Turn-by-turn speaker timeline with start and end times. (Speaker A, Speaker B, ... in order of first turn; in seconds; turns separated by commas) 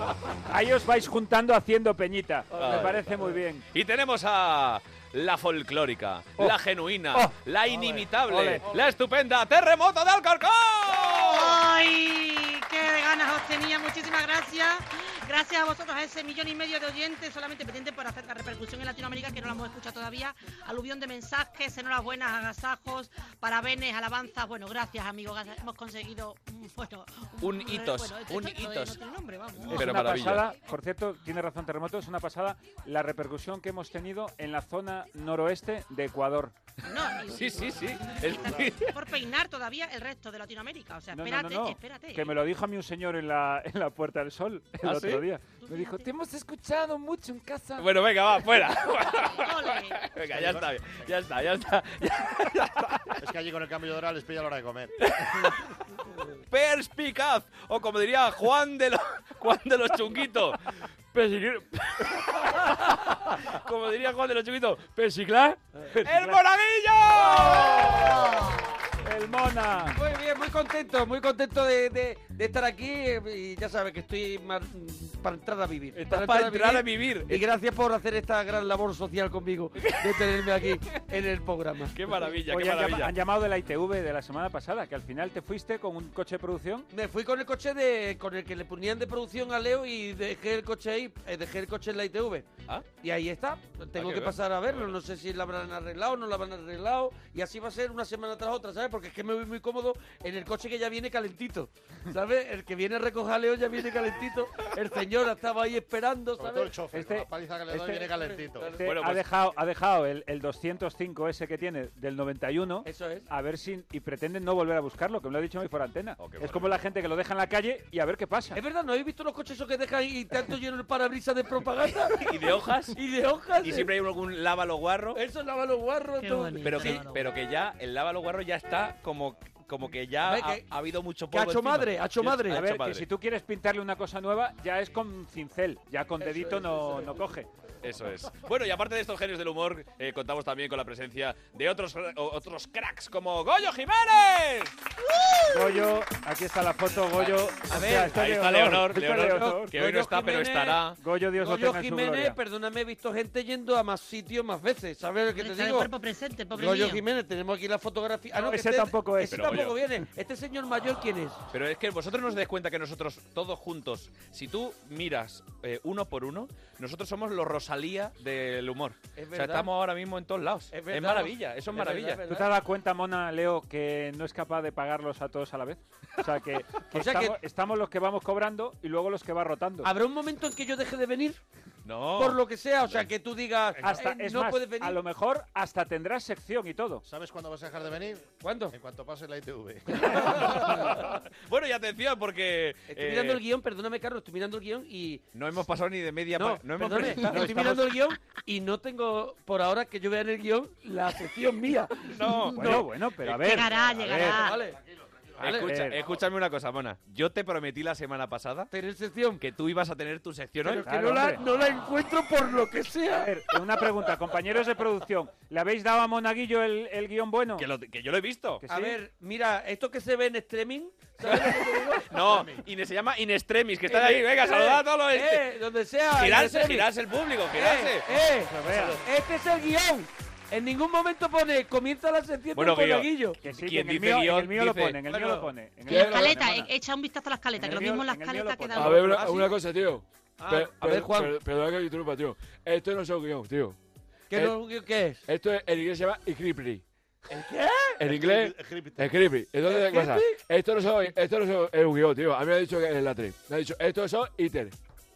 Speaker A: 0.5-3.7, Speaker B: 2.6-3.1, Speaker B: 3.7-11.6, Speaker A: 8.3-8.6, Speaker C: 11.3-30.1, Speaker B: 27.4-29.0, Speaker A: 29.7-36.5, Speaker B: 29.7-30.5, Speaker C: 36.8-42.4, Speaker B: 37.3-38.9, Speaker A: 41.1-47.9, Speaker B: 44.8-45.2, Speaker C: 45.6-46.1, Speaker B: 47.8-53.0, Speaker C: 49.1-50.1, Speaker D: 50.4-50.6, Speaker D: 53.2-55.0, Speaker B: 55.1-55.6, Speaker B: 56.5-60.6, Speaker E: 61.1-62.3, Speaker B: 63.4-64.9, Speaker E: 64.9-65.6, Speaker B: 66.0-68.3, Speaker A: 66.1-66.4, Speaker A: 69.0-70.0, Speaker F: 69.9-82.0, Speaker B: 76.0-77.5, Speaker B: 79.8-80.4, Speaker B: 81.9-83.1, Speaker A: 82.4-86.9, Speaker F: 86.9-92.5, Speaker F: 93.0-106.8, Speaker B: 94.0-94.9, Speaker D: 106.4-108.7, Speaker A: 106.9-108.2, Speaker F: 108.1-108.9, Speaker A: 108.7-118.6, Speaker B: 108.8-109.2, Speaker F: 112.8-113.3, Speaker B: 116.2-116.7, Speaker F: 118.5-122.2, Speaker B: 122.2-123.0, Speaker F: 122.9-123.9, Speaker B: 123.6-125.2, Speaker F: 125.2-127.0, Speaker C: 126.2-127.2, Speaker B: 126.6-133.1, Speaker F: 130.2-130.6, Speaker F: 131.3-132.6, Speaker A: 132.5-137.5, Speaker F: 136.2-137.2, Speaker B: 137.8-144.7, Speaker A: 145.5-149.8, Speaker B: 147.6-151.0, Speaker F: 149.5-155.9, Speaker A: 151.0-152.4, Speaker C: 155.3-157.0, Speaker F: 156.5-161.4, Speaker A: 158.4-159.7, Speaker B: 159.3-159.8, Speaker B: 161.5-172.2, Speaker F: 169.2-169.7, Speaker F: 170.7-172.6, Speaker A: 172.3-179.9, Speaker F: 176.9-177.4, Speaker F: 179.8-181.4, Speaker B: 181.8-182.4, Speaker F: 182.2-185.0, Speaker A: 183.8-187.1, Speaker D: 187.1-191.0, Speaker F: 188.4-188.7, Speaker F: 190.1-191.0, Speaker B: 191.4-193.4, Speaker F: 192.9-195.2, Speaker B: 195.3-197.5, Speaker F: 196.4-202.9, Speaker A: 197.3-197.9, Speaker B: 202.1-203.5, Speaker A: 202.5-204.4, Speaker C: 203.3-204.6, Speaker F: 204.2-204.8, Speaker D: 204.7-205.4, Speaker B: 205.4-208.7, Speaker F: 205.4-205.7, Speaker A: 205.6-206.0, Speaker F: 208.7-209.4, Speaker B: 209.4-210.9, Speaker F: 210.6-213.3, Speaker A: 210.8-211.4, Speaker A: 213.1-217.7, Speaker B: 217.6-218.7, Speaker A: 218.7-219.0, Speaker F: 218.7-222.5, Speaker B: 222.1-225.4, Speaker F: 223.9-226.9, Speaker B: 226.1-228.2, Speaker F: 227.5-233.4, Speaker A: 228.5-229.0, Speaker B: 232.5-235.0, Speaker A: 233.4-236.7, Speaker F: 235.1-235.5, Speaker C: 235.9-239.2, Speaker E: 235.9-236.3, Speaker A: 237.6-239.3, Speaker E: 238.7-243.8, Speaker F: 238.9-239.5, Speaker F: 240.4-241.4, Speaker F: 244.3-245.2, Speaker E: 245.3-246.8, Speaker F: 247.3-248.0, Speaker E: 248.0-254.7, Speaker D: 248.0-249.1, Speaker F: 249.7-250.4